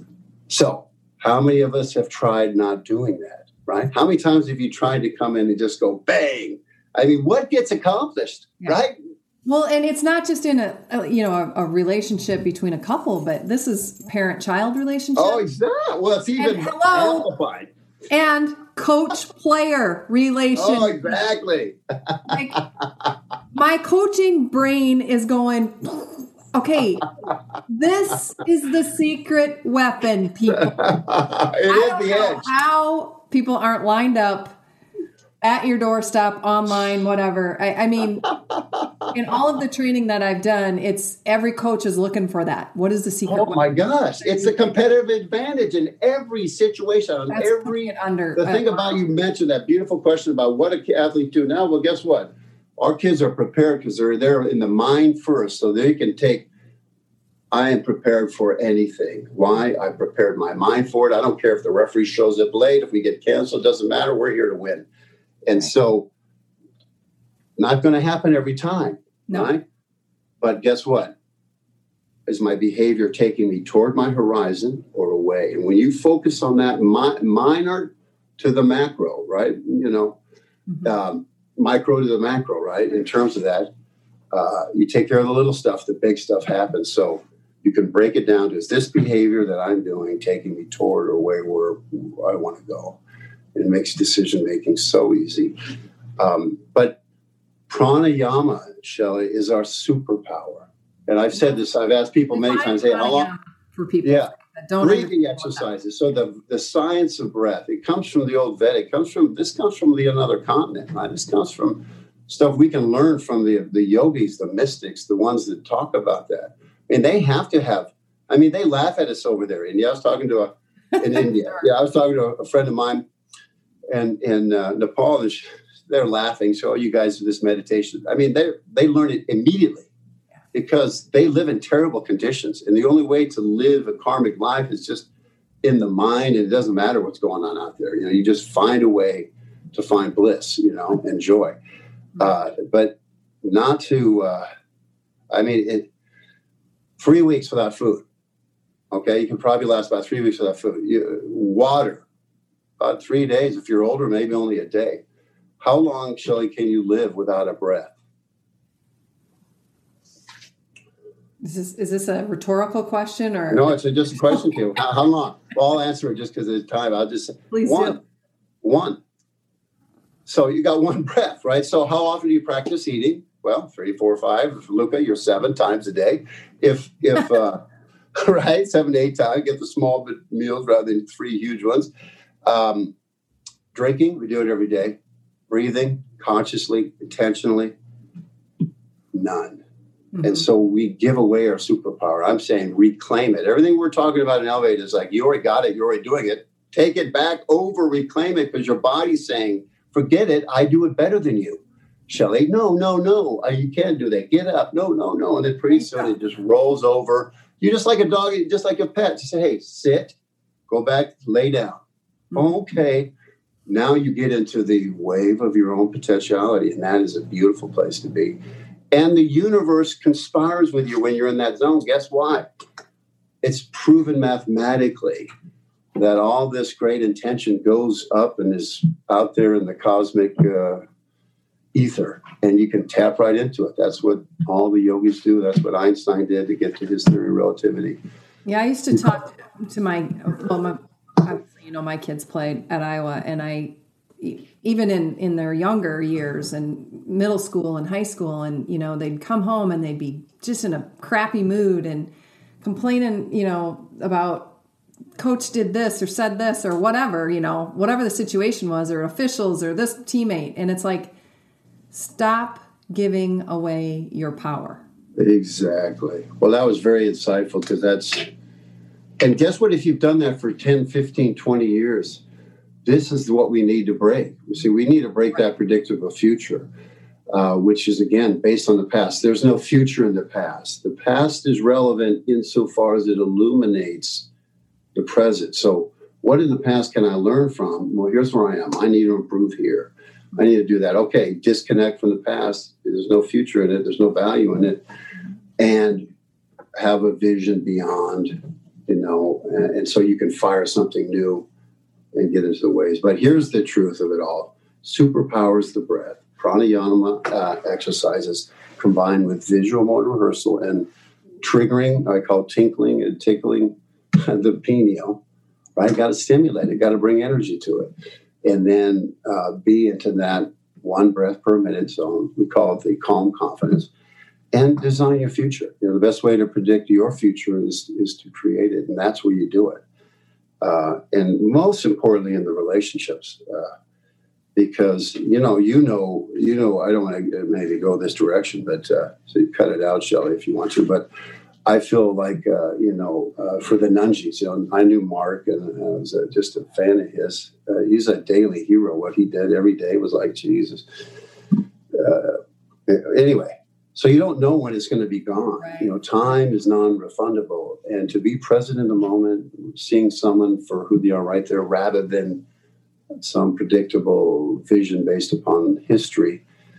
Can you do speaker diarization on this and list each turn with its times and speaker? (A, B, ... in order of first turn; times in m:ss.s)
0:00.5-0:08.9 A
0:09.4-0:15.4 B
0:15.2-0:17.7 A
0:16.4-0:17.3 B
0:18.1-0:21.2 B
0:20.5-0:22.3 A
0:22.2-0:22.6 B
0:23.5-0:27.1 B
0:27.7-0:30.9 B
0:30.8-0:32.5 A
0:31.7-0:34.6 B
0:35.4-0:38.3 B
0:39.1-0:44.6 B
0:43.3-0:56.4 A
0:47.3-0:49.0 B
0:57.5-1:04.9 A
1:05.4-1:06.0 A
1:07.6-1:09.6 A
1:10.4-1:11.1 A
1:12.3-1:20.2 A
1:20.8-1:23.7 A
1:24.3-1:33.0 A
1:33.5-1:37.0 A
1:37.7-1:43.3 A
1:42.3-1:45.6 B
1:44.0-1:44.3 A
1:44.8-2:03.0 A
2:03.9-2:09.9 A
2:10.5-2:15.1 A
2:15.6-2:21.6 A
2:22.2-2:24.4 A
2:25.3-2:25.9 A
2:27.0-2:28.0 A
2:28.9-2:32.0 A
2:32.8-2:35.0 A
2:35.6-2:37.9 A
2:41.4-2:43.8 B
2:43.5-2:48.0 A
2:47.5-2:48.0 B
2:48.6-2:49.0 A
2:50.2-2:57.6 A
2:58.1-3:01.9 A
3:02.4-3:02.9 A
3:03.7-3:05.0 A
3:05.5-3:07.7 A
3:09.1-3:09.6 A
3:10.1-3:10.4 B
3:10.2-3:30.1 A
3:30.7-3:31.8 A
3:32.3-3:33.1 A
3:33.7-3:38.4 A
3:38.9-3:42.4 A
3:43.4-3:45.3 A
3:45.9-3:50.8 A
3:51.7-3:58.0 A
3:58.4-4:12.1 B
4:12.6-4:14.6 B
4:15.2-4:21.1 B
4:21.9-4:24.8 B
4:25.2-4:28.2 A
4:29.2-4:32.2 A
4:32.8-4:36.6 A
4:37.3-4:44.2 A
4:44.9-4:54.8 A
4:55.6-4:56.0 A
4:56.7-5:01.4 A
5:02.1-5:10.8 A
5:11.4-5:15.2 A
5:15.8-5:17.9 A
5:18.4-5:23.9 A
5:24.5-5:29.8 A
5:30.6-5:33.7 A
5:34.6-5:41.0 A
5:41.6-5:50.8 A
5:51.9-6:02.4 A
5:55.6-5:55.9 B
6:03.2-6:06.4 A